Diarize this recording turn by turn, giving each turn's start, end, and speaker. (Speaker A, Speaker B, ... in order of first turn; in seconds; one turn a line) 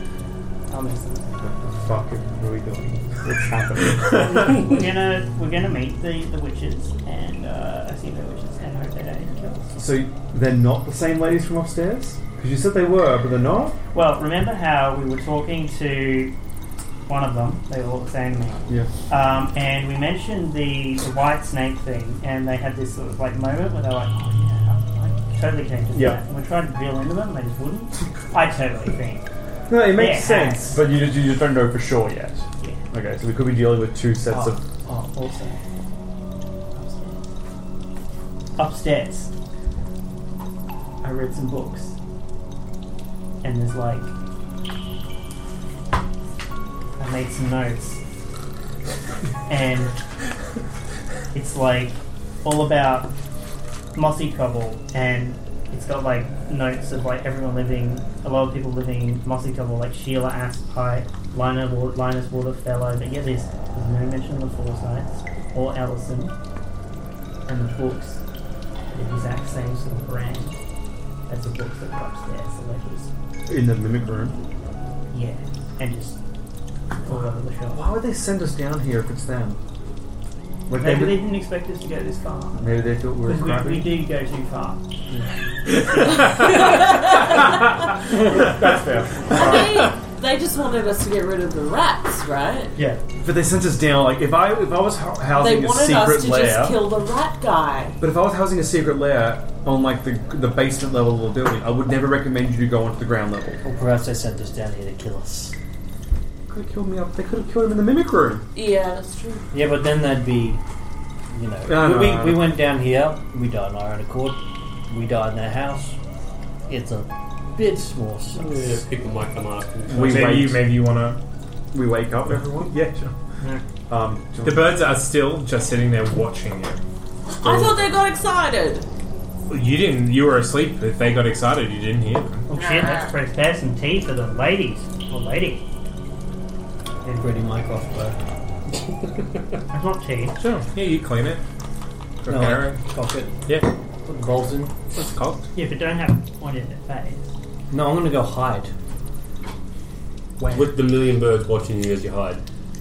Speaker A: 0.7-1.3
Speaker B: 1.4-4.6
Speaker A: 4.3-9.7
Speaker B: 9.8-13.8
Speaker A: 13.9-16.3
Speaker A: 17.1-29.3
Speaker B: 25.9-26.2
Speaker B: 29.7-34.7
Speaker A: 29.9-30.8
Speaker A: 34.3-35.6
Speaker A: 36.7-37.2
Speaker A: 38.6-39.3
Speaker A: 41.0-42.0
Speaker A: 43.4-44.1
Speaker A: 47.0-48.0
Speaker A: 49.5-50.0
Speaker A: 51.3-53.1
Speaker A: 54.0-66.3
Speaker A: 67.5-68.2
Speaker A: 68.9-70.6
Speaker A: 71.3-73.1
Speaker B: 73.5-74.4
Speaker A: 75.1-76.2
Speaker A: 77.1-77.9
Speaker B: 77.1-79.6
Speaker B: 80.7-81.3
Speaker A: 80.8-82.7
Speaker B: 82.5-84.0
Speaker A: 83.2-84.8
Speaker C: 85.7-87.6
Speaker D: 86.8-87.0
Speaker B: 88.1-89.9
Speaker D: 89.3-92.7
Speaker B: 93.2-96.9
Speaker D: 95.3-98.0
Speaker B: 98.0-103.6
Speaker E: 103.6-105.5
Speaker B: 106.5-108.5
Speaker D: 108.5-109.5
Speaker E: 109.5-110.6
Speaker E: 111.3-116.0
Speaker B: 111.7-112.6
Speaker E: 116.7-118.6
Speaker F: 118.3-120.3
Speaker B: 119.9-120.7
Speaker C: 119.9-121.2
Speaker B: 121.7-122.8
Speaker C: 122.3-123.1
Speaker B: 123.9-124.8
Speaker C: 124.4-126.8
Speaker D: 127.3-128.9
Speaker B: 127.5-127.8
Speaker C: 129.5-132.5
Speaker A: 132.5-135.6
Speaker D: 132.5-133.1
Speaker E: 137.1-138.2
Speaker A: 139.7-140.4
Speaker C: 140.4-141.4
Speaker C: 142.2-142.8
Speaker E: 142.3-143.5
Speaker E: 144.1-144.8
Speaker C: 144.9-145.5
Speaker A: 145.6-147.3
Speaker E: 147.7-148.7
Speaker C: 150.4-150.8
Speaker F: 150.5-152.4